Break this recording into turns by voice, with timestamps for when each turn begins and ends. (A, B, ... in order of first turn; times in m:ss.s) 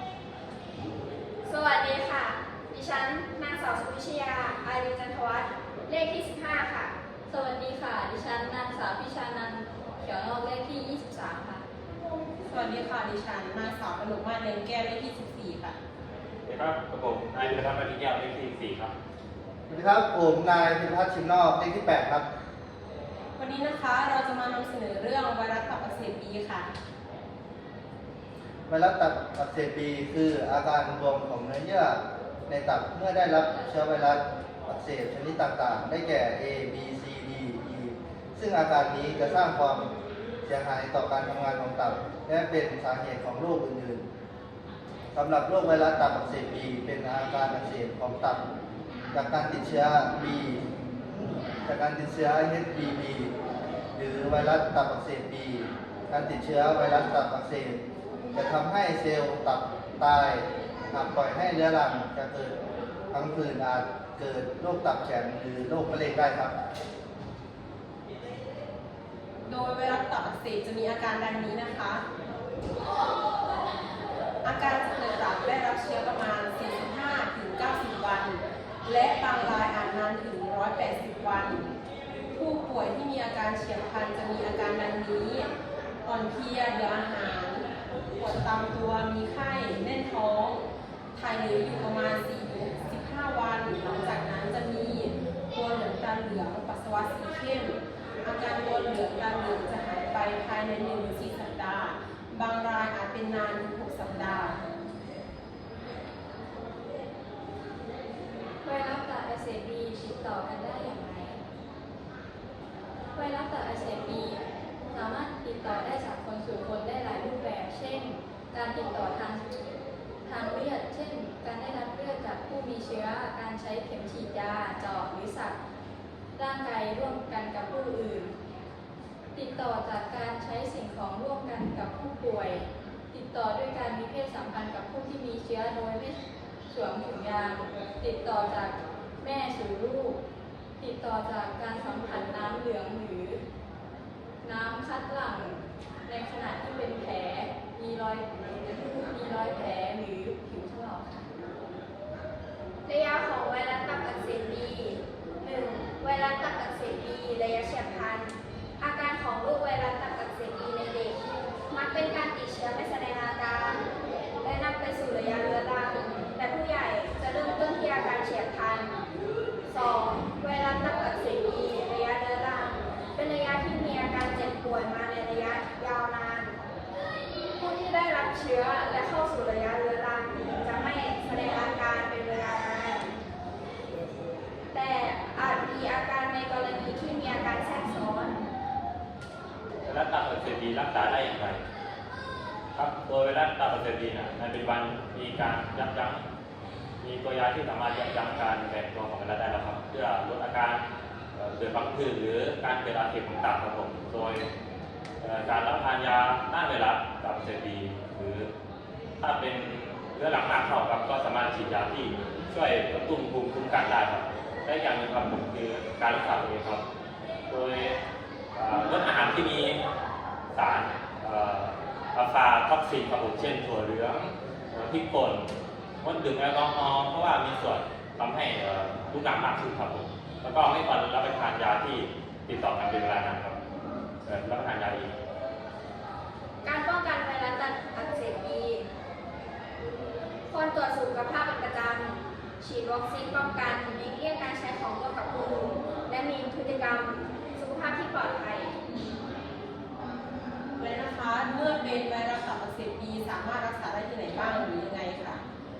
0:01.4-0:06.9 A
0:07.3-0:11.6 B
0:12.5-0:15.8 C
0:16.4-0:18.9 D
0:19.7-0:22.2 E
0:23.4-0:26.7 C
0:28.7-0:39.9 E
0:40.4-0:44.0 E
0:45.1-0:48.4 E
0:49.1-0:53.3 E
0:53.9-1:02.6 E
1:03.1-1:06.5 E
1:09.5-1:12.0 C
1:14.4-1:21.6 C
1:22.4-1:25.4 C
1:26.0-1:27.6 C
1:28.2-1:30.6 C
1:31.1-1:44.6 C
1:48.6-1:51.4 B
1:53.1-1:59.6 B
2:00.2-2:05.6 B
2:06.4-2:08.3 B
2:09.3-2:20.2 B
2:20.8-2:23.4 B
2:24.4-2:31.2 B
2:32.8-2:41.2 A
2:41.7-2:43.8 A
2:44.4-2:48.9 A
2:49.7-2:56.6 A
2:57.5-3:03.1 A
3:04.7-3:08.4 A
3:09.8-3:11.6 D
3:12.7-3:16.2 D
3:17.0-3:20.8 D
3:21.3-3:24.5 D
3:25.2-3:28.5 D
3:29.2-3:36.8 D
3:37.5-3:38.0 D
3:38.5-3:39.8 D
3:40.5-3:53.6 D
3:54.2-3:55.1 D
3:56.6-3:58.9 A
4:00.5-4:08.7 A
4:10.8-4:15.4 C